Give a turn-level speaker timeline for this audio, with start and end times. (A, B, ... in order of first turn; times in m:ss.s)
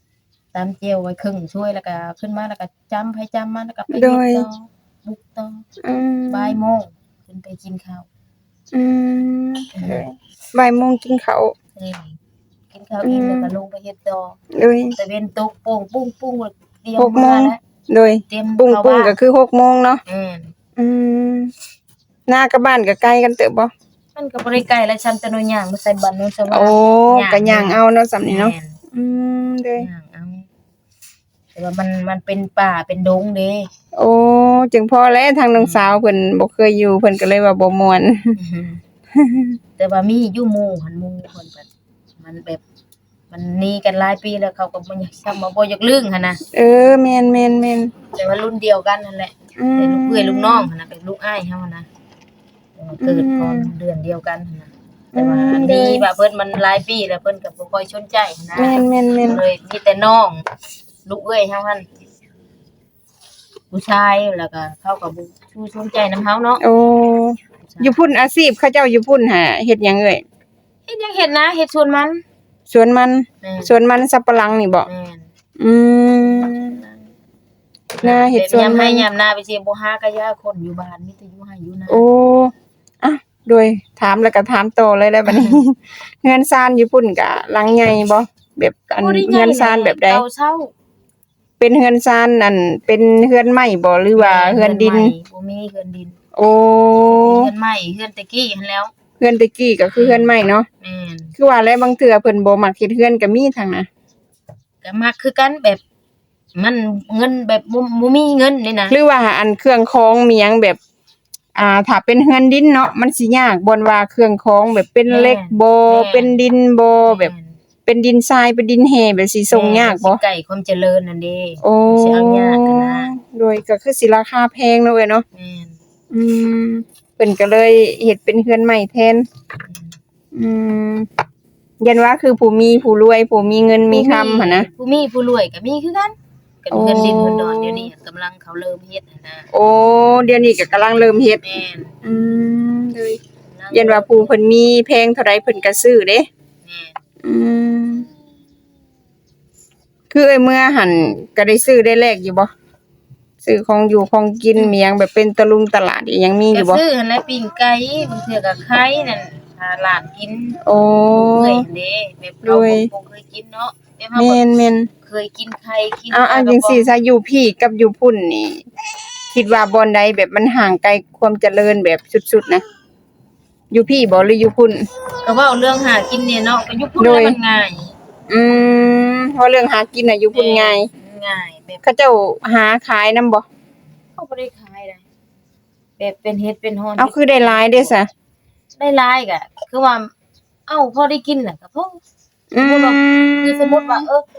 0:00.5-0:05.7 A
0:03.9-0:04.5 B
0:05.8-0:06.6 B
0:06.3-0:08.1 A
0:08.7-0:11.5 B
0:09.8-0:10.0 A
0:11.7-0:12.2 A
0:12.7-0:14.4 A
0:13.0-0:13.5 B
0:14.5-0:15.0 B
0:15.0-0:17.6 A
0:17.0-0:20.0 B
0:18.3-0:19.1 A
0:20.0-0:20.5 A
0:20.8-0:21.5 B
0:22.3-0:23.7 B
0:24.1-0:28.8 A
0:26.5-0:29.9 B
0:29.8-0:30.5 A
0:31.5-0:33.7 A
0:33.9-0:38.4 B
0:35.6-0:36.0 A
0:38.4-0:38.8 A
0:39.2-0:39.6 B
0:39.8-0:41.7 A
0:42.2-0:42.6 A
0:43.3-0:46.4 A
0:46.5-0:47.9 B
0:48.1-0:51.9 A
0:49.6-0:50.7 B
0:52.8-1:00.5 A
0:53.0-0:53.7 B
0:55.1-0:56.0 B
0:58.5-0:59.4 B
1:01.0-1:01.9 A
1:03.7-1:06.6 A
1:06.6-1:10.2 B
1:07.6-1:08.0 A
1:10.9-1:12.2 A
1:12.7-1:14.9 B
1:13.4-1:13.7 A
1:14.8-1:15.2 A
1:15.6-1:16.8 B
1:16.4-1:17.1 A
1:17.9-1:22.0 A
1:18.0-1:19.1 B
1:21.9-1:30.2 B
1:25.2-1:25.6 A
1:28.9-1:30.7 A
1:31.6-1:35.1 B
1:34.2-1:36.2 A
1:36.4-1:37.5 B
1:37.2-1:38.9 A
1:39.2-1:40.7 B
1:39.9-1:41.3 A
1:41.4-1:43.9 B
1:44.8-1:45.8 A
1:46.5-1:49.0 A
1:48.9-1:50.8 B
1:51.6-1:57.3 B
1:55.1-1:56.4 A
1:57.1-1:57.6 A
1:57.8-2:00.2 B
1:59.5-2:03.1 A
2:01.6-2:05.2 B
2:05.3-2:05.8 A
2:06.1-2:09.2 B
2:09.6-2:10.0 A
2:10.3-2:11.1 B
2:11.8-2:14.7 B
2:13.9-2:19.5 A
2:16.7-2:17.9 B
2:19.5-2:21.4 B
2:21.4-2:22.0 A
2:22.0-2:23.2 B
2:23.5-2:24.4 A
2:23.7-2:26.3 B
2:26.6-2:27.0 A
2:27.2-2:28.1 B
2:30.1-2:32.5 B
2:33.4-2:36.8 B
2:36.5-2:40.6 A
2:40.6-2:41.6 B
2:41.1-2:44.4 A
2:42.4-2:42.9 B
2:44.2-2:44.9 B
2:45.0-2:46.9 A
2:46.1-2:48.6 B
2:49.3-2:52.6 B
2:53.7-2:54.8 B
2:55.2-2:57.9 A
2:57.0-2:57.4 B
2:58.3-3:00.9 B
3:00.3-3:01.8 A
3:01.8-3:03.4 B
3:04.2-3:05.0 A
3:06.0-3:07.9 A
3:07.0-3:08.1 B
3:08.8-3:10.1 A
3:10.7-3:12.0 A
3:12.5-3:14.0 B
3:12.6-3:14.2 A